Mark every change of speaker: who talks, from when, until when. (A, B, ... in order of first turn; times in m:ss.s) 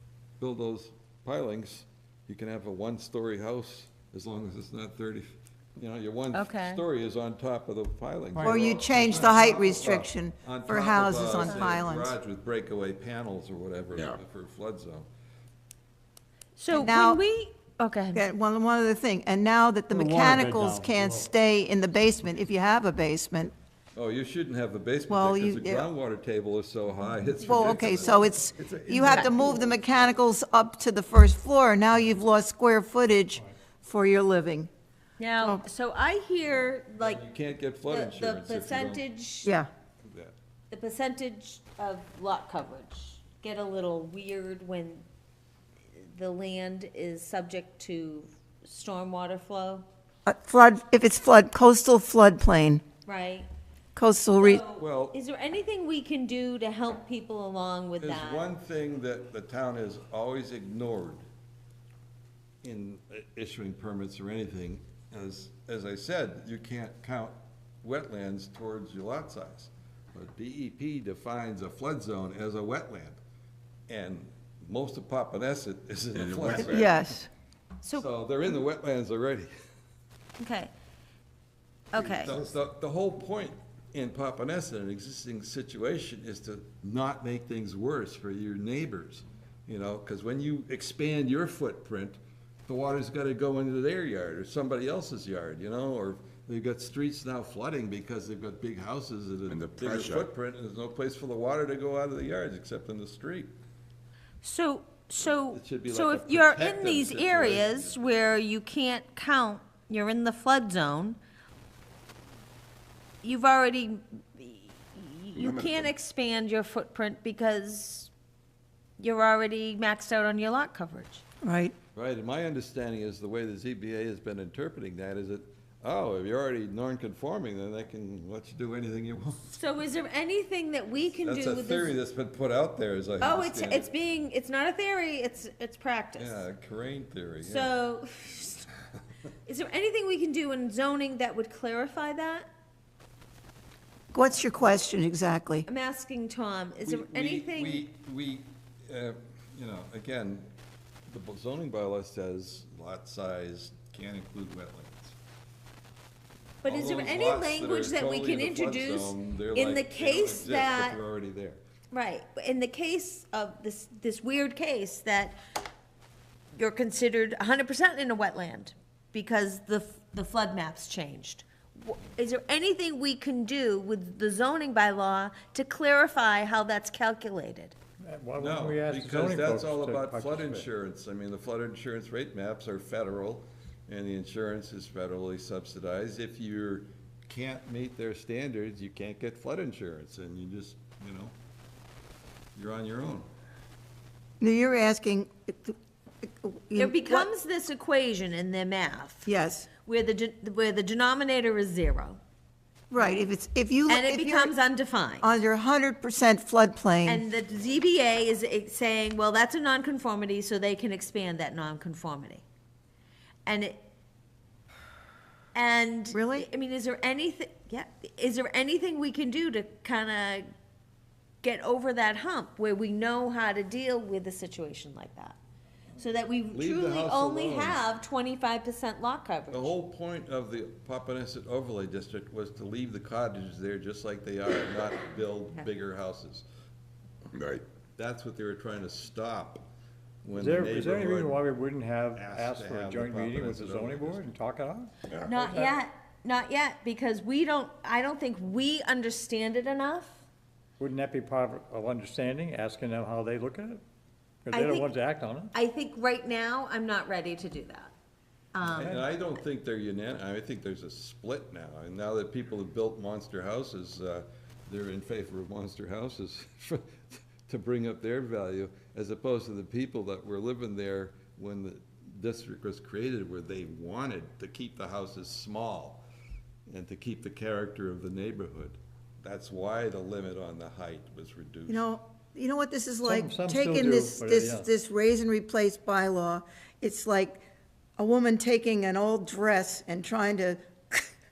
0:00.4-0:15.1 A
0:06.3-0:06.8 B
0:08.3-0:09.4 C
0:08.4-0:12.2 D
0:11.4-0:11.7 B
0:16.6-0:18.2 B
0:16.7-0:17.2 D
0:18.1-0:23.5 D
0:19.9-0:21.3 C
0:23.9-0:29.8 A
0:25.1-0:25.9 D
0:27.4-0:34.7 D
0:29.1-0:29.5 B
0:35.2-0:37.2 B
0:36.4-0:39.0 A
0:37.9-0:39.5 B
0:40.0-0:40.3 A
0:40.7-0:45.0 B
0:45.9-0:49.9 B
0:50.2-0:52.8 D
0:53.0-0:53.5 B
0:54.0-0:54.6 D
0:54.4-0:58.5 B
0:54.8-0:55.1 A
0:58.0-1:01.2 A
1:02.6-1:13.2 A
1:13.9-1:17.1 A
1:16.1-1:16.8 E
1:16.6-1:17.3 D
1:18.0-1:19.5 A
1:20.4-1:20.7 B
1:21.9-1:22.3 B
1:22.0-1:43.5 A
1:39.5-1:40.2 E
1:44.4-1:51.2 B
1:45.5-1:48.4 A
1:53.2-1:58.1 B
1:55.3-1:55.9 E
1:59.0-2:01.2 B
2:01.4-2:01.7 D
2:01.9-2:09.6 A
2:09.5-2:11.9 B
2:11.2-2:13.9 A
2:13.2-2:16.4 B
2:16.2-2:17.7 A
2:17.4-2:18.7 B
2:19.4-2:22.5 B
2:24.1-2:25.7 D
2:25.7-2:27.8 B
2:26.8-2:30.5 A
2:31.1-2:35.2 A
2:36.6-2:41.0 B
2:36.6-2:41.6 A
2:41.9-2:45.4 B
2:46.5-2:57.7 B
2:58.1-3:00.7 C
2:58.4-3:11.3 A
3:12.6-3:13.3 A
3:14.4-3:15.7 D
3:16.2-3:17.3 D
3:16.8-3:19.3 B
3:19.2-3:19.7 D
3:19.8-3:22.2 B
3:22.9-3:24.5 D
3:23.9-3:25.2 B
3:25.2-3:27.2 D
3:27.0-3:32.4 B
3:33.4-3:33.8 B
3:35.5-3:40.4 B
3:36.1-3:36.5 D
3:41.4-3:45.4 B
3:46.0-3:49.7 B
3:46.5-3:47.9 A
3:49.5-3:56.4 A
3:57.3-3:57.6 E
3:58.0-3:59.6 A
4:00.2-4:01.4 A
4:00.3-4:05.7 C
4:02.1-4:04.3 A
4:05.1-4:05.4 E
4:05.2-4:10.2 B
4:10.8-4:13.8 C
4:14.4-4:15.5 C
4:14.5-4:14.9 B
4:15.5-4:17.9 B
4:18.5-4:19.0 B
4:18.7-4:36.0 A
4:18.7-4:19.0 C
4:36.7-4:41.8 A
4:41.7-4:47.4 D
4:43.0-4:44.7 C
4:48.0-4:51.1 D